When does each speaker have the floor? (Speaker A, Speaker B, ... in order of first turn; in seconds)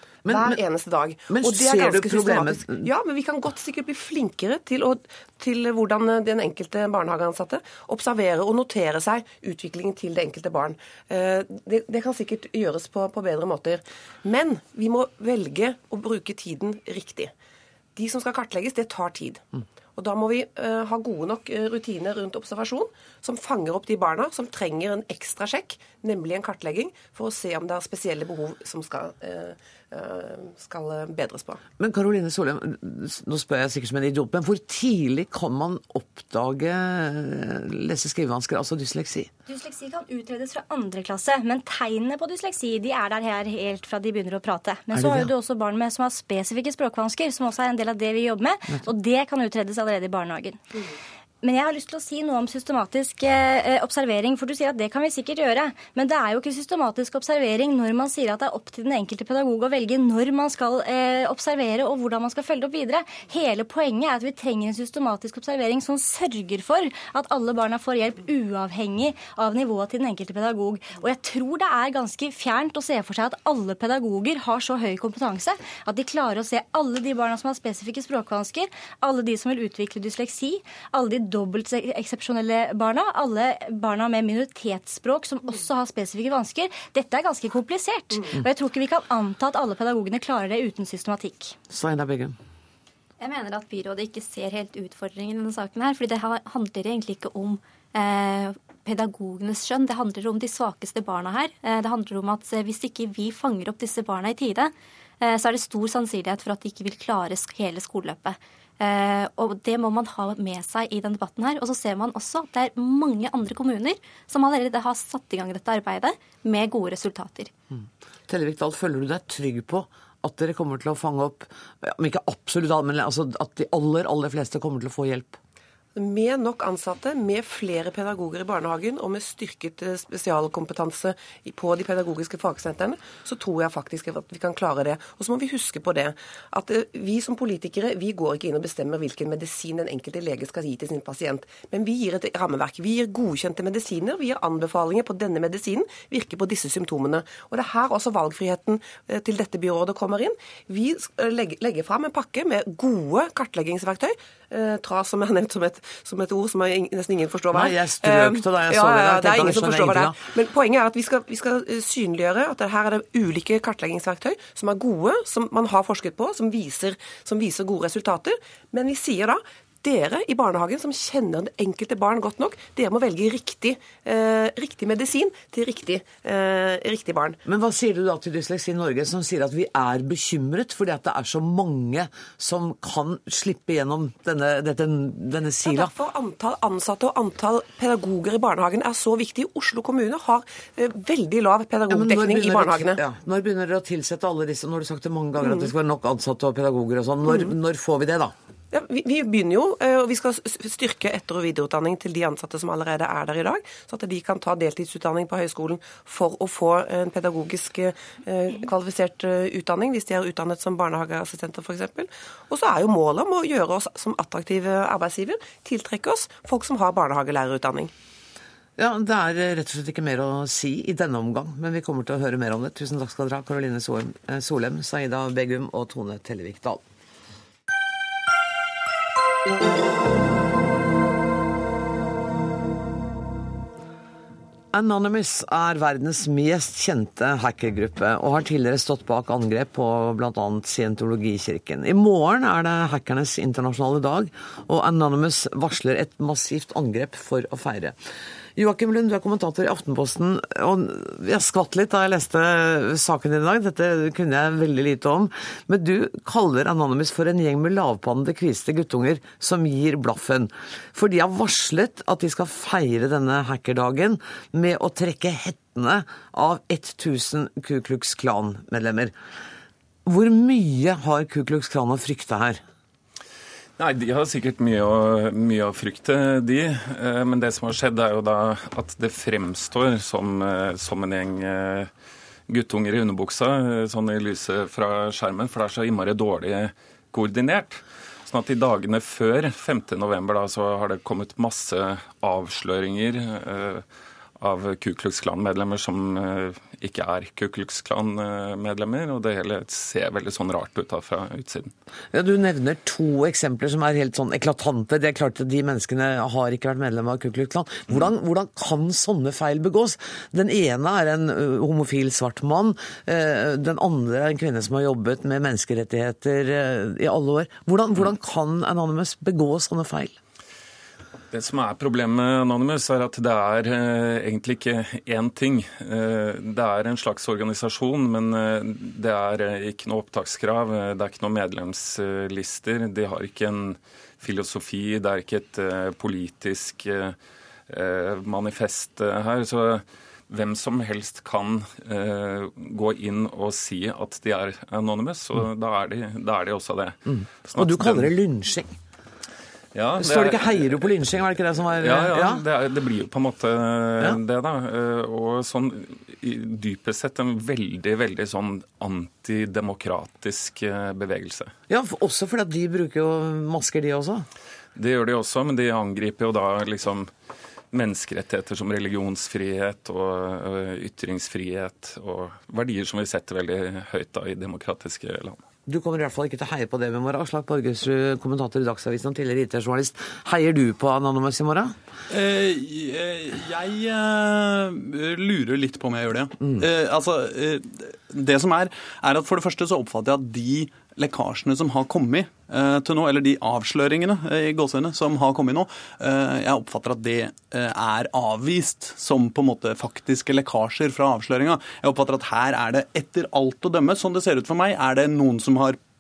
Speaker A: 0.2-0.6, 1.3-2.9, 31.8-39.3, 44.9-45.3, 91.7-92.3, 118.3-125.4, 157.5-160.2, 177.4-185.9, 191.9-198.3, 218.8-226.8, 234.7-247.9, 248.6-269.1, 270.1-272.6, 302.1-320.2, 347.1-348.7, 350.0-352.4, 361.7-364.2, 375.7-381.7
Speaker B: 0.3-17.3, 17.9-31.6, 125.9-177.4, 185.6-193.0, 195.4-195.7, 197.2-197.5, 198.7-217.9
Speaker C: 39.5-50.6, 51.4-91.5
Speaker D: 93.2-117.5
Speaker E: 273.8-281.9, 282.5-293.8, 294.4-301.7, 321.3-337.2, 337.7-348.1, 349.7-350.8, 351.8-361.5, 364.8-367.1, 367.7-375.4
Speaker F: 382.1-405.8